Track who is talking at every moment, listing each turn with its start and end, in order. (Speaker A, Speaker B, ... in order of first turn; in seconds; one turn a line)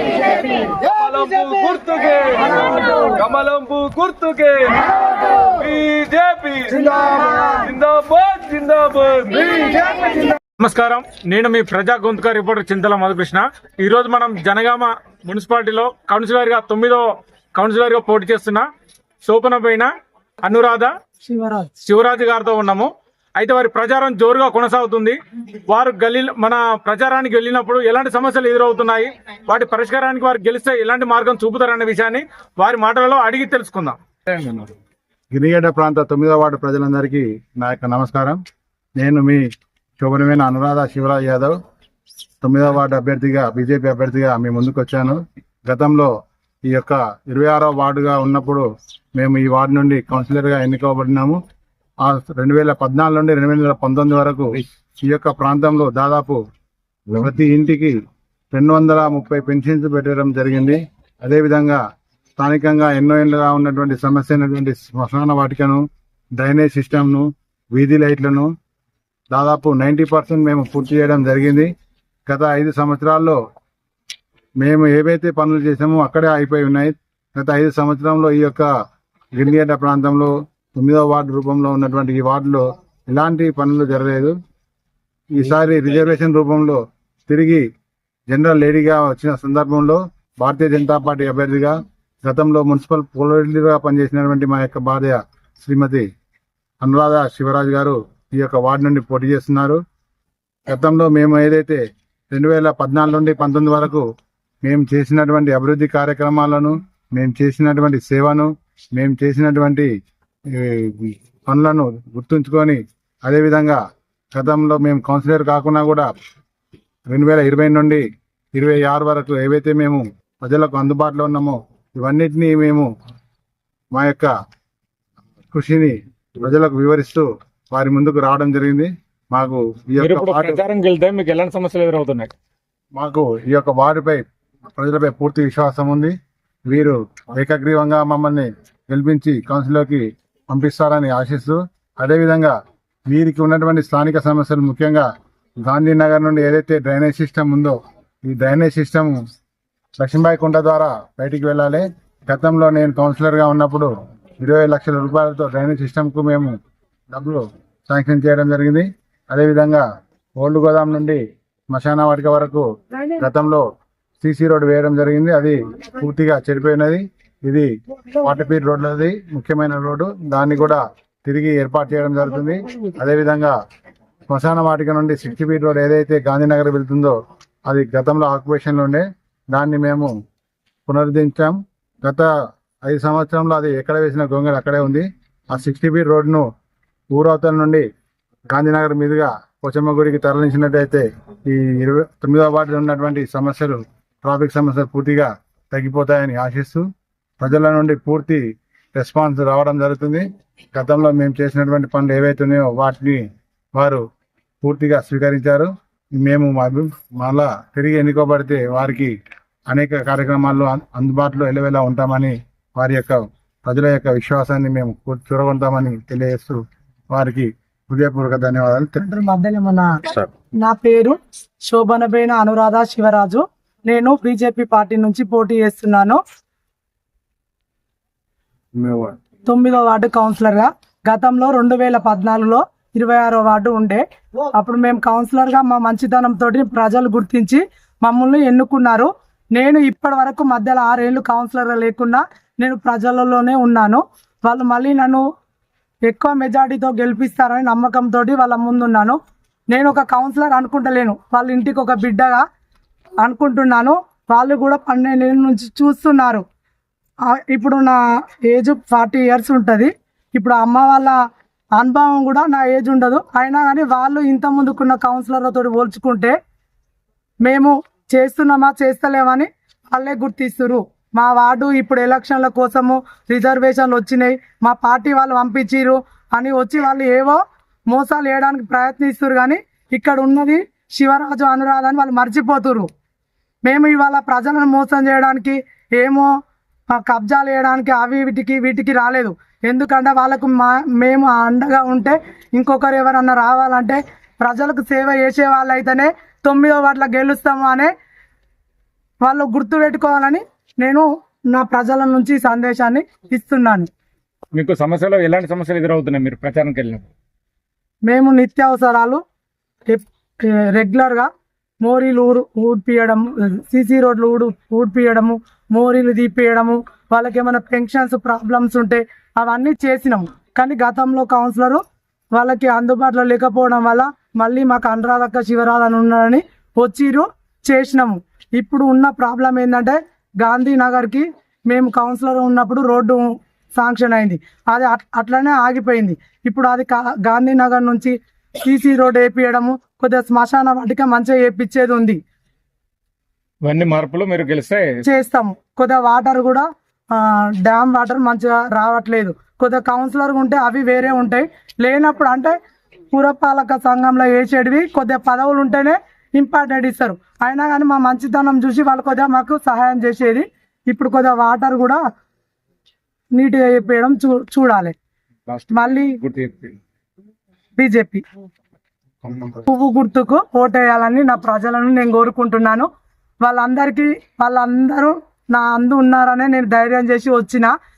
Speaker A: 0.6-9.9
Speaker B: 5.7-6.3
Speaker B: 7.8-9.1
Speaker B: 10.6-18.6
Speaker B: 19.2-19.9
Speaker B: 20.4-20.9
Speaker C: 21.2-21.7
Speaker B: 21.8-25.2
Speaker B: 25.7-34.7
Speaker D: 35.3-38.4
Speaker D: 39.0-39.4
Speaker D: 40.0-41.6
Speaker D: 42.4-46.1
Speaker D: 46.7-51.4
Speaker D: 52.0-56.4
Speaker D: 57.1-57.9
Speaker D: 58.5-61.8
Speaker D: 62.4-65.8
Speaker D: 66.4-68.5
Speaker D: 69.3-71.7
Speaker D: 72.3-73.4
Speaker D: 74.6-78.7
Speaker D: 79.3-84.3
Speaker D: 85.3-87.6
Speaker D: 88.3-96.0
Speaker D: 96.8-99.8
Speaker D: 100.7-104.0
Speaker D: 104.6-109.9
Speaker D: 110.5-113.8
Speaker D: 114.3-116.1
Speaker D: 117.1-122.9
Speaker D: 123.9-124.3
Speaker D: 125.5-130.6
Speaker B: 130.0-132.3
Speaker D: 132.9-134.2
Speaker D: 134.8-136.1
Speaker D: 136.7-142.5
Speaker D: 143.1-145.1
Speaker D: 145.6-149.2
Speaker D: 150.0-156.6
Speaker D: 157.1-159.8
Speaker D: 160.4-163.6
Speaker D: 164.2-173.5
Speaker D: 174.3-180.1
Speaker D: 180.9-182.3
Speaker D: 182.8-186.4
Speaker D: 187.1-187.8
Speaker D: 188.5-196.8
Speaker D: 197.4-203.2
Speaker D: 203.7-204.0
Speaker D: 204.6-209.1
Speaker D: 209.7-219.0
Speaker C: 219.0-220.0
Speaker C: 220.6-226.2
Speaker A: 228.8-229.1
Speaker C: 229.4-245.2
Speaker C: 246.1-249.2
Speaker C: 249.7-252.4
Speaker C: 253.2-256.4
Speaker C: 257.3-261.2
Speaker C: 261.8-266.3
Speaker C: 267.4-282.9
Speaker C: 283.6-286.3
Speaker C: 286.9-297.9
Speaker C: 299.2-303.9
Speaker B: 304.5-307.1
Speaker C: 308.1-309.2
Speaker C: 309.9-311.3
Speaker C: 311.8-321.8
Speaker C: 322.3-342.2
Speaker B: 343.6-345.0
Speaker C: 345.0-352.5
Speaker C: 353.1-362.0
Speaker C: 363.3-364.9
Speaker B: 365.5-366.8
Speaker C: 365.7-366.2
Speaker C: 367.8-368.2
Speaker C: 369.6-372.9
Speaker C: 373.4-377.7